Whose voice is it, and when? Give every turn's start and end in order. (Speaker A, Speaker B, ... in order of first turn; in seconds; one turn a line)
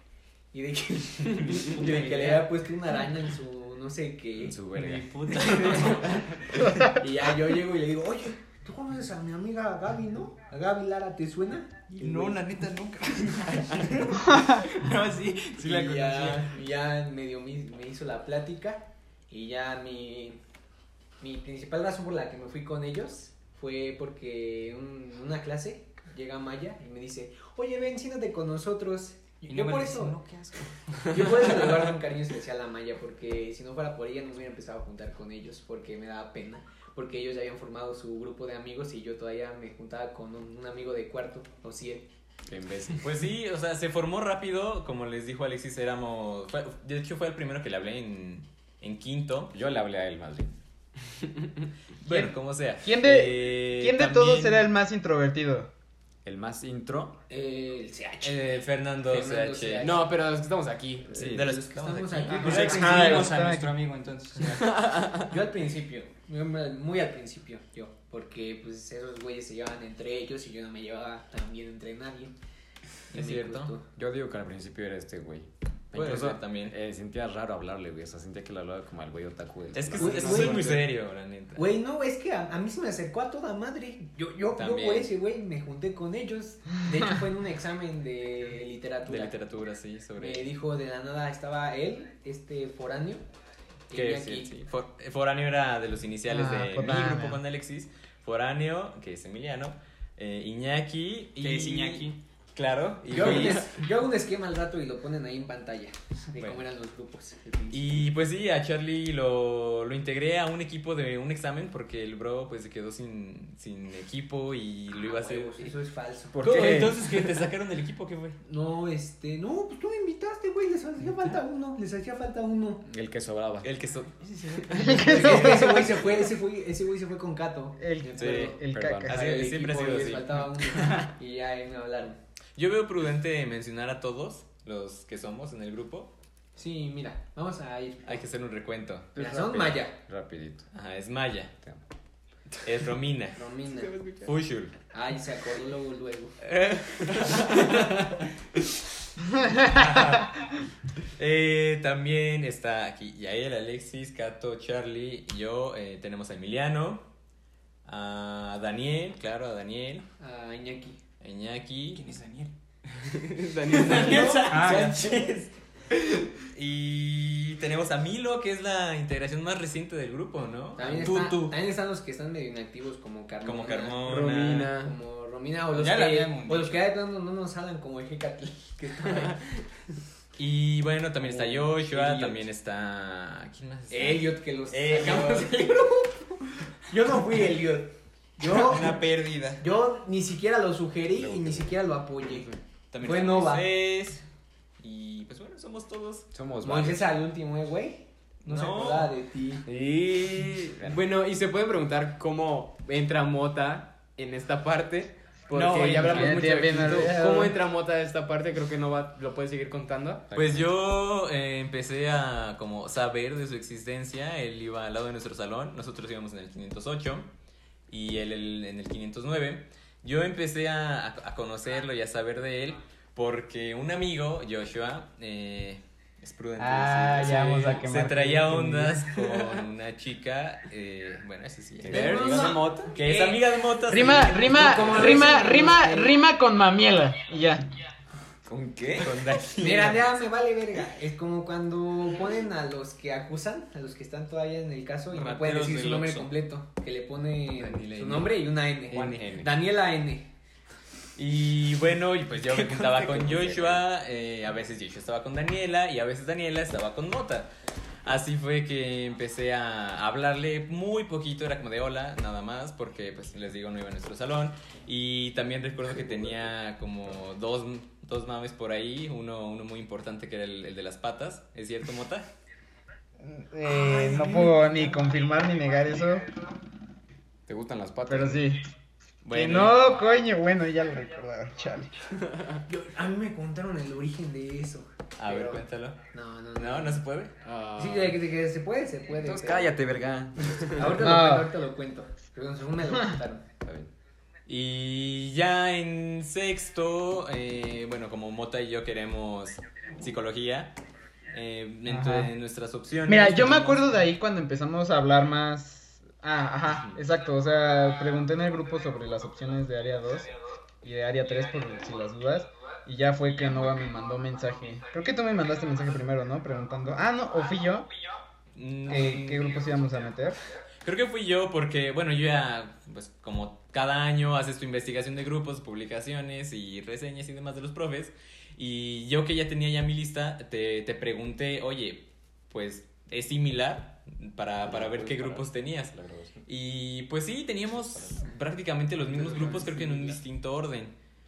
Speaker A: 0.5-4.6
Speaker B: 1.6-2.5
Speaker C: 4.4-5.1
Speaker B: 4.7-6.3
Speaker A: 5.3-12.4
Speaker D: 6.6-6.9
Speaker B: 12.0-16.5
Speaker A: 15.6-20.4
Speaker A: 21.2-30.2
Speaker B: 29.5-31.8
Speaker A: 31.1-42.1
Speaker C: 42.5-43.1
Speaker E: 43.0-49.5
Speaker C: 49.5-50.5
Speaker E: 52.0-54.7
Speaker D: 52.8-55.7
Speaker C: 56.2-57.2
Speaker A: 57.3-60.1
Speaker E: 58.2-59.9
Speaker F: 59.8-61.2
Speaker C: 61.1-61.5
Speaker E: 61.2-63.2
Speaker A: 61.2-63.1
Speaker D: 62.3-63.8
Speaker B: 62.4-64.8
Speaker F: 64.7-65.3
Speaker A: 65.1-72.3
Speaker A: 73.1-73.9
Speaker E: 73.1-73.7
Speaker C: 73.9-80.9
Speaker E: 76.0-76.8
Speaker E: 79.7-81.6
Speaker A: 80.0-80.8
Speaker A: 81.5-89.3
Speaker E: 84.5-85.1
Speaker E: 89.1-90.5
Speaker A: 90.2-93.2
Speaker A: 93.9-94.6
Speaker E: 93.9-103.8
Speaker D: 96.3-97.4
Speaker B: 101.4-102.2
Speaker A: 103.1-107.9
Speaker E: 107.7-115.7
Speaker A: 115.0-116.4
Speaker C: 116.3-117.1
Speaker E: 116.4-118.4
Speaker A: 118.4-122.8
Speaker C: 122.9-123.7
Speaker E: 123.6-126.0
Speaker B: 124.2-125.2
Speaker A: 124.7-132.2
Speaker D: 124.7-125.9
Speaker D: 127.8-129.2
Speaker E: 128.2-130.8
Speaker C: 128.7-129.1
Speaker B: 130.8-131.1
Speaker E: 132.6-136.1
Speaker A: 136.6-138.2
Speaker E: 138.1-139.2
Speaker C: 139.2-140.7
Speaker A: 139.2-139.9
Speaker E: 140.7-141.5
Speaker E: 142.6-144.8
Speaker A: 143.3-144.0
Speaker A: 144.9-146.4
Speaker E: 146.5-147.9
Speaker D: 149.4-149.7
Speaker E: 149.6-150.6
Speaker E: 151.2-157.1
Speaker E: 157.8-160.1
Speaker A: 160.2-161.0
Speaker E: 161.2-162.1
Speaker B: 161.9-162.5
Speaker F: 163.1-164.7
Speaker E: 163.7-165.5
Speaker B: 163.8-164.9
Speaker A: 163.9-165.0
Speaker E: 166.4-171.5
Speaker A: 170.8-179.4
Speaker E: 173.4-174.9
Speaker F: 174.0-174.9
Speaker B: 175.7-176.8
Speaker E: 180.4-185.6
Speaker A: 181.2-182.5
Speaker A: 183.9-186.2
Speaker A: 186.9-189.0
Speaker B: 188.4-189.6
Speaker A: 189.6-192.5
Speaker C: 191.2-191.8
Speaker E: 192.9-194.2
Speaker A: 193.0-193.7
Speaker E: 194.8-196.3
Speaker C: 196.3-197.1
Speaker A: 196.6-199.7
Speaker B: 198.4-199.1
Speaker C: 199.7-201.0
Speaker F: 200.8-210.3
Speaker B: 205.5-206.4
Speaker D: 205.8-207.6
Speaker C: 210.3-210.7
Speaker E: 210.3-217.3
Speaker E: 217.9-235.3
Speaker D: 226.6-229.1
Speaker C: 231.8-233.0
Speaker A: 231.9-233.4
Speaker D: 233.9-237.7
Speaker A: 234.3-236.1
Speaker C: 238.4-239.4
Speaker E: 239.0-240.1
Speaker A: 239.6-250.3
Speaker E: 245.1-246.3
Speaker E: 247.6-248.3
Speaker C: 248.9-249.5
Speaker E: 251.2-257.5
Speaker C: 252.5-253.8
Speaker E: 258.0-272.3
Speaker C: 266.0-266.3
Speaker D: 273.2-276.3
Speaker A: 273.7-274.9
Speaker C: 277.5-278.5
Speaker D: 278.1-278.6
Speaker E: 279.2-279.9
Speaker D: 279.3-282.0
Speaker F: 282.3-282.6
Speaker A: 282.7-287.0
Speaker E: 285.2-286.0
Speaker E: 286.6-287.3
Speaker F: 287.4-288.2
Speaker A: 287.8-289.8
Speaker C: 289.1-291.1
Speaker A: 290.7-293.4
Speaker D: 291.0-291.5
Speaker C: 293.6-293.9
Speaker E: 294.5-300.8
Speaker E: 301.3-304.0
Speaker D: 301.9-302.3
Speaker D: 303.1-317.9
Speaker E: 318.6-319.7
Speaker D: 318.9-320.4
Speaker E: 320.8-335.9
Speaker C: 334.6-336.4
Speaker E: 336.5-340.9
Speaker C: 337.9-338.2
Speaker C: 339.1-339.9